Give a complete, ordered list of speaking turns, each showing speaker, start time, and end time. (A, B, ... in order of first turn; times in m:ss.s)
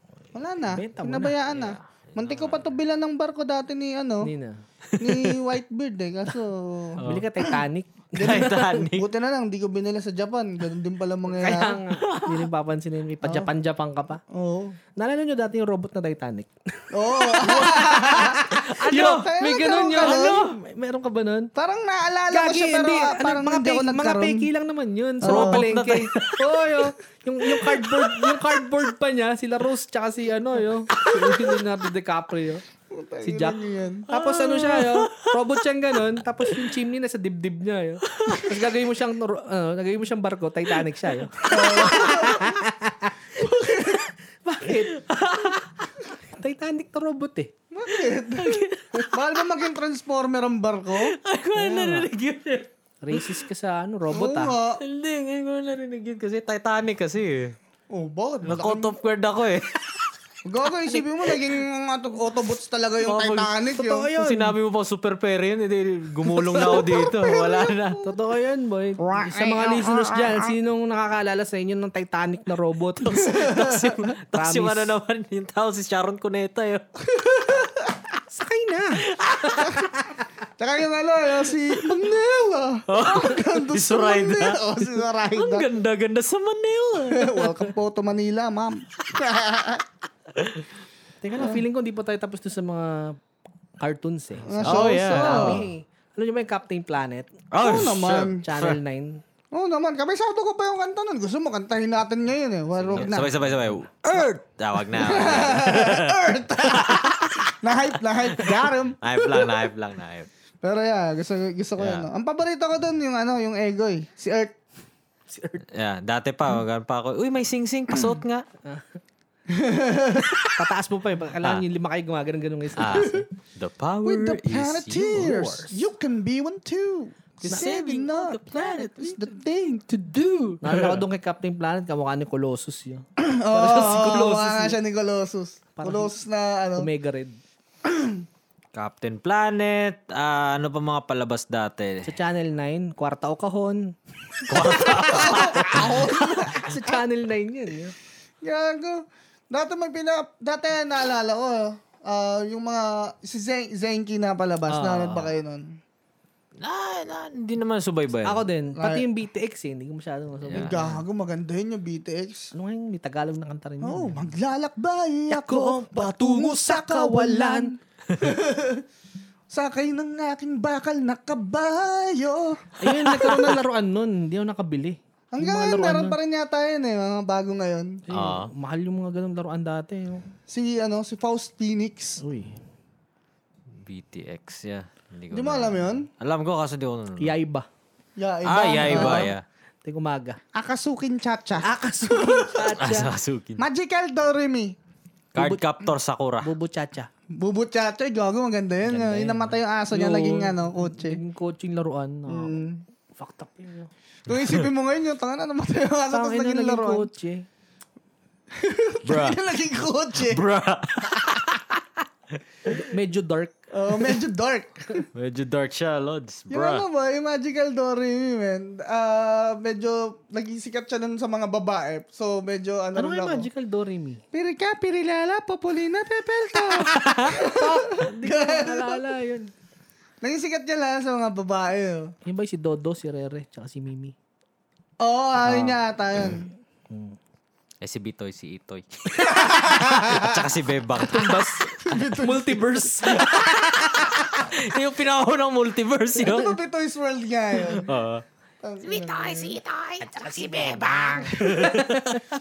0:00.3-0:04.3 A
0:00.7-0:01.4 B
0:01.5-0:02.7 C
0:04.2-0:04.6 B
0:04.9-0:05.4 C
0:05.0-0:07.0 A
0:07.0-0:07.5 C
0:07.0-0:08.8 B
0:08.2-0:11.8 A
0:08.2-0:09.1 C
0:11.3-0:14.2 B
0:12.0-0:12.5 C
0:13.2-0:13.5 A
0:14.3-0:14.8 A
0:15.0-0:21.5 B
0:16.9-0:20.4 A
0:18.6-0:19.3 C
0:20.0-0:20.4 C
0:21.6-0:24.5 A
0:22.3-0:32.6 B
0:25.2-0:25.7 A
0:25.3-0:26.9 C
0:27.5-0:28.5 C
0:31.0-0:31.4 C
0:32.9-0:34.1 A
0:33.2-0:47.5 B
0:34.1-0:35.4 C
0:38.1-0:38.6 C
0:41.5-0:42.6 A
0:41.5-0:42.3 C
0:43.4-0:44.1 A
0:44.7-0:45.7 C
0:47.7-0:51.2 A
0:48.4-0:49.1 C
0:51.0-0:53.4 C
0:51.6-0:52.1 B
0:53.0-0:54.6 B
0:54.1-0:54.8 A
0:54.8-0:57.6 C
0:57.9-0:58.9 A
0:58.4-1:00.1 C
1:00.5-1:04.1 A
1:01.2-1:01.6 C
1:03.0-1:03.6 C
1:03.7-1:04.6 B
1:04.2-1:08.0 C
1:06.4-1:08.2 A
1:06.5-1:06.8 B
1:08.0-1:13.6 B
1:09.0-1:10.5 A
1:13.0-1:16.8 C
1:13.2-1:14.0 A
1:14.3-1:15.0 B
1:17.1-1:18.0 A
1:18.3-1:20.3 B
1:19.0-1:19.9 C
1:20.6-1:25.7 A
1:22.9-1:27.5 C
1:27.0-1:29.8 A
1:30.4-1:30.7 C
1:31.2-1:33.2 B
1:31.4-1:31.6 A
1:33.8-1:37.4 B
1:34.5-1:35.6 A
1:34.6-1:35.6 C
1:37.5-1:38.8 C
1:37.6-1:38.4 A
1:38.4-1:39.2 B
1:39.5-1:43.3 A
1:42.9-1:43.2 B
1:42.9-1:47.7 C
1:44.9-1:49.7 A
1:48.3-1:50.3 C
1:50.6-1:54.6 A
1:51.8-1:52.1 C
1:55.3-1:55.6 B
1:55.7-1:58.5 C
1:58.6-1:59.0 B
1:59.5-2:00.4 A
2:00.6-2:03.3 B
2:02.8-2:05.4 C
2:04.0-2:10.2 A
2:05.0-2:05.8 B
2:07.4-2:09.3 C
2:07.5-2:07.7 B
2:10.1-2:11.0 C
2:10.6-2:14.8 B
2:13.2-2:16.9 A
2:15.8-2:16.1 B
2:16.8-2:17.4 B
2:17.8-2:18.2 A
2:18.8-2:22.1 C
2:22.0-2:28.0 B
2:24.5-2:26.1 C
2:24.6-2:27.0 A
2:28.4-2:35.8 A
2:34.7-2:35.3 B
2:36.6-2:38.4 C
2:38.2-2:41.0 B
2:38.8-2:39.1 A
2:40.5-2:40.8 C
2:40.5-2:42.5 A
2:42.5-2:44.3 B
2:43.8-2:48.8 A
2:45.3-2:47.7 B
2:49.5-2:53.4 A
2:52.8-2:56.2 B
2:55.3-2:58.0 A
2:58.1-3:00.3 B
2:58.1-2:58.5 C
3:00.5-3:02.2 A
3:02.2-3:02.6 B
3:03.8-3:07.3 C
3:05.3-3:06.1 A
3:07.2-3:07.7 B
3:08.2-3:09.3 A
3:08.4-3:09.4 C
3:08.8-3:09.3 B
3:09.8-3:10.4 B
3:10.5-3:12.7 A
3:11.6-3:13.1 B
3:12.8-3:13.6 C
3:13.6-3:14.8 A
3:15.4-3:16.5 C
3:15.4-3:15.6 B
3:16.4-3:17.1 B
3:17.4-3:21.2 A
3:18.8-3:22.6 B
3:22.3-3:22.8 A
3:23.2-3:23.9 B
3:24.3-3:27.1 A
3:24.3-3:24.7 C
3:26.1-3:27.5 B
3:28.5-3:30.4 A
3:29.0-3:29.4 C
3:30.2-3:31.8 C
3:32.8-3:33.6 B
3:33.7-3:35.1 A
3:35.1-3:36.8 C
3:36.5-3:43.5 A
3:43.0-3:44.2 B
3:44.3-3:49.1 A
3:46.8-3:49.5 B
3:50.2-3:52.1 A
3:52.2-3:54.2 B
3:55.0-3:56.5 A
3:55.4-3:55.8 B
3:56.9-3:57.2 B
3:57.8-4:01.6 C
3:59.2-4:00.5 A
4:01.0-4:04.2 B
4:01.8-4:03.2 A
4:03.1-4:06.6 C
4:06.2-4:07.9 A
4:07.7-4:08.2 C
4:08.6-4:09.6 A
4:08.8-4:12.2 C
4:10.0-4:12.2 B